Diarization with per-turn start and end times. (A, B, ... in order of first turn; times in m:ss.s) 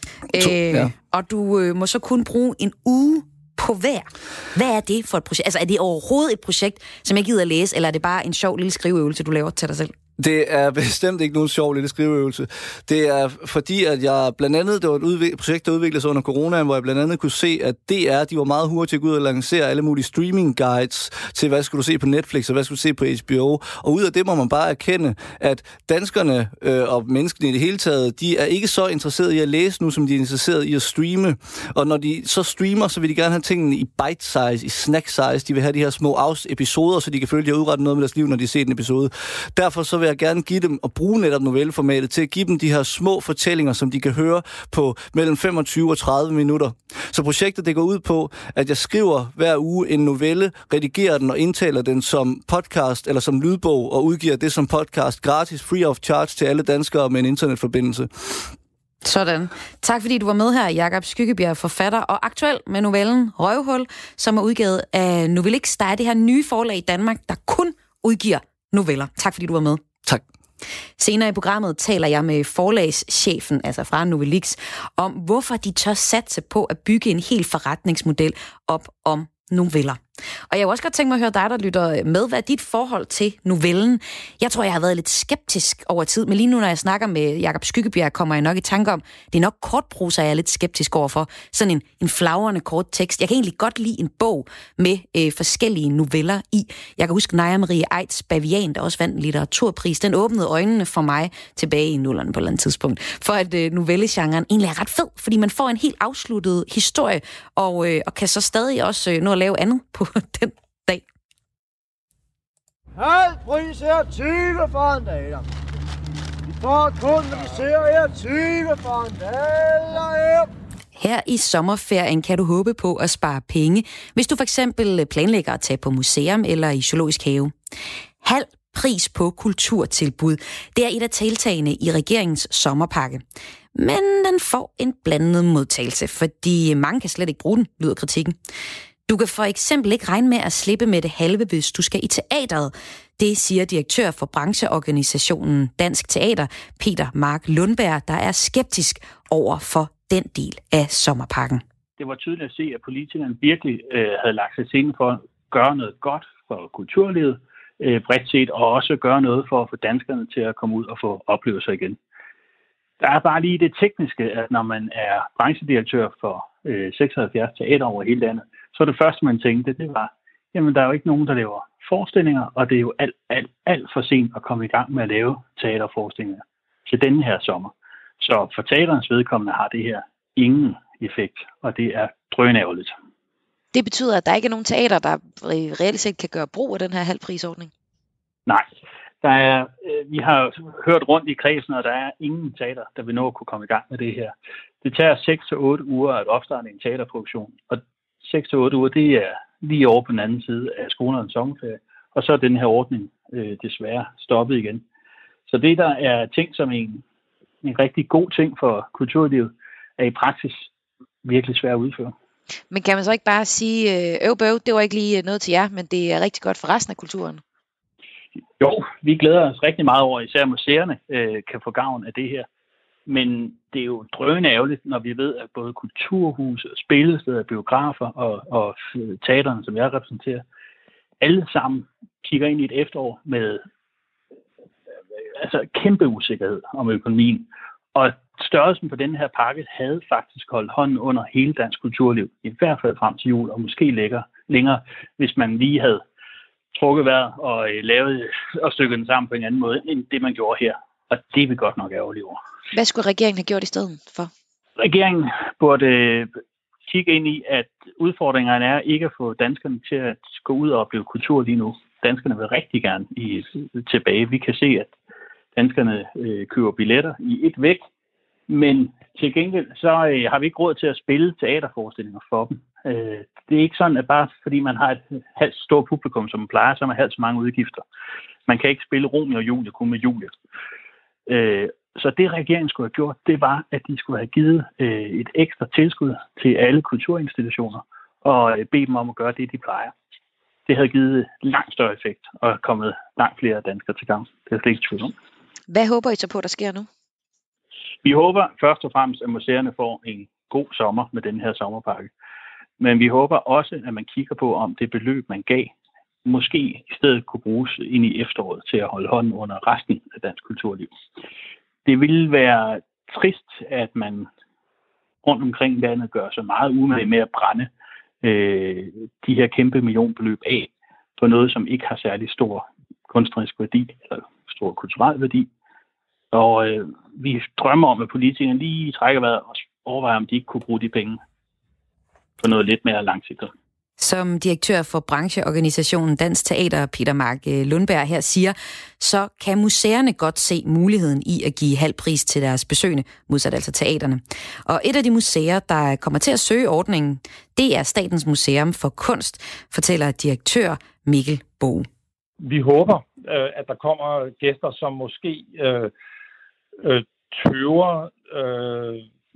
0:00.3-0:09.9 A
0:00.4-0:00.9 B
0:10.2-0:58.5 B
0:59.0-1:09.8 A
1:11.0-1:51.0 A
1:53.0-1:55.4 C
1:56.6-2:00.5 C
2:01.0-2:07.5 A
2:08.2-2:13.2 A
2:13.8-2:18.4 A
2:19.1-2:31.6 A
2:32.0-2:42.0 D
2:43.0-3:03.0 D
3:03.7-3:07.7 E
3:09.2-3:24.8 D
3:25.5-3:27.0 D
3:27.6-3:30.7 D
3:31.2-3:32.1 D
3:32.7-3:37.4 E
3:38.6-3:42.5 D
3:43.1-3:50.4 D
3:51.2-3:53.6 D
3:55.4-4:06.0 D
4:06.7-4:12.4 D
4:12.7-4:14.3 E
4:14.8-4:24.9 D
4:25.6-4:27.8 D
4:28.5-4:37.8 D
4:38.5-4:40.3 D
4:41.3-4:49.9 D
4:50.7-4:55.2 D
4:55.7-4:56.9 E
4:58.0-5:02.1 D
5:02.8-5:05.7 D
5:06.2-5:10.9 D
5:11.8-5:14.3 D
5:15.2-5:17.7 D
5:18.2-5:25.5 D
5:26.3-5:31.2 D
5:32.4-5:33.5 D
5:34.0-5:51.9 A
5:52.4-5:55.9 F
5:56.8-5:59.1 F